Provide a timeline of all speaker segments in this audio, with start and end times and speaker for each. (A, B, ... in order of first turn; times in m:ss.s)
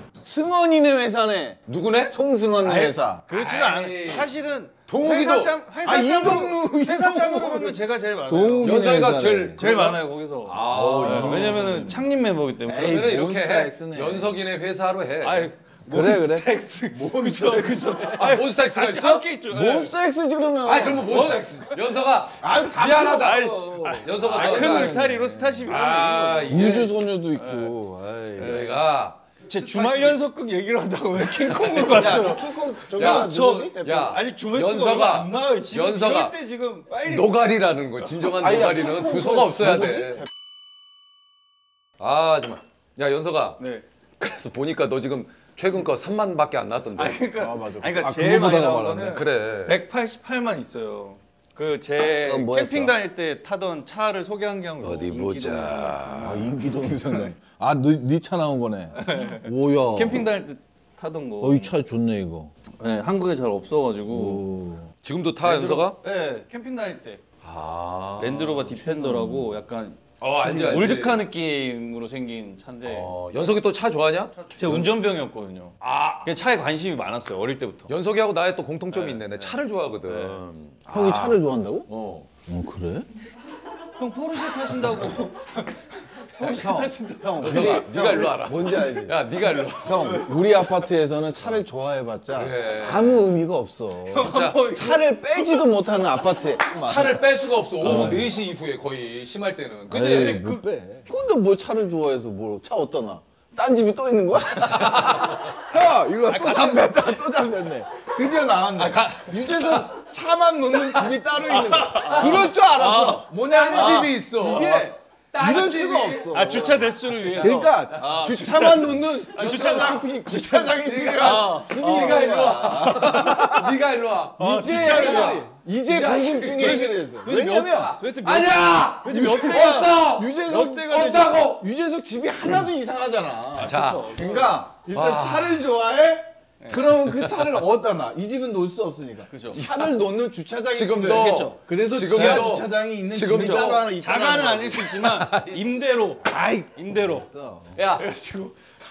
0:00.2-0:03.2 A
0:01.7-0:02.1 B
0:02.6-0:09.0 C
0:03.3-0:04.3 B
0:04.9-0:05.6 B
0:05.8-0:09.6 A
0:08.6-0:12.0 B
0:09.6-0:13.0 C
0:10.7-0:11.9 A
0:12.6-0:14.4 A
0:12.7-0:15.5 B
0:15.2-0:19.9 C
0:15.9-0:18.1 A
0:17.7-0:19.3 B
0:19.5-0:21.4 A
0:20.6-0:25.1 B
0:21.1-0:21.7 C
0:22.4-0:25.7 A
0:23.0-0:26.8 C
0:25.6-0:26.9 B
0:26.4-0:28.6 A
0:27.4-0:27.7 C
0:28.4-0:28.8 C
0:28.4-0:30.2 B
0:29.5-0:37.4 C
0:31.2-0:36.4 B
0:31.8-0:34.2 A
0:37.0-0:40.3 B
0:38.4-0:40.3 A
0:42.0-0:43.6 B
0:43.6-0:43.8 C
0:44.2-0:47.2 B
0:46.9-0:56.6 C
0:47.3-0:49.2 A
0:49.1-0:49.8 B
0:52.2-0:52.9 A
0:54.8-0:56.4 B
0:56.2-1:00.3 A
0:58.9-1:01.7 C
1:01.4-1:02.5 A
1:02.7-1:04.4 C
1:04.1-1:04.9 A
1:05.0-1:06.0 B
1:05.4-1:07.2 C
1:07.4-1:08.8 B
1:08.2-1:13.1 C
1:08.8-1:09.4 A
1:10.2-1:11.2 B
1:12.8-1:14.9 B
1:14.4-1:17.9 C
1:15.8-1:16.3 B
1:17.9-1:22.3 B
1:18.9-1:20.4 C
1:20.9-1:21.9 A
1:22.4-1:23.1 A
1:24.0-1:27.9 C
1:26.4-1:37.2 A
1:27.4-1:30.3 B
1:32.3-1:33.2 B
1:34.1-1:35.8 C
1:34.1-1:34.8 B
1:36.8-1:40.4 B
1:37.8-1:38.4 A
1:37.8-1:38.3 C
1:39.9-2:03.8 A
1:39.9-1:40.6 C
1:44.6-1:45.5 B
1:46.2-1:47.0 C
1:48.8-1:49.9 B
1:48.8-1:49.5 C
1:51.4-1:54.1 C
1:52.0-1:52.5 B
1:53.4-2:11.6 B
1:56.3-2:00.1 C
2:01.1-2:03.5 C
2:04.4-2:05.5 C
2:04.4-2:08.0 A
2:06.6-2:11.4 C
2:09.0-2:24.8 A
2:13.6-2:14.6 C
2:13.6-2:14.2 B
2:14.9-2:15.6 B
2:19.3-2:19.6 C
2:19.5-2:19.9 B
2:20.7-2:23.9 B
2:20.9-2:22.6 C
2:23.2-2:27.2 C
2:24.7-2:25.8 B
2:26.2-2:27.8 A
2:27.8-2:28.1 B
2:28.0-2:28.5 C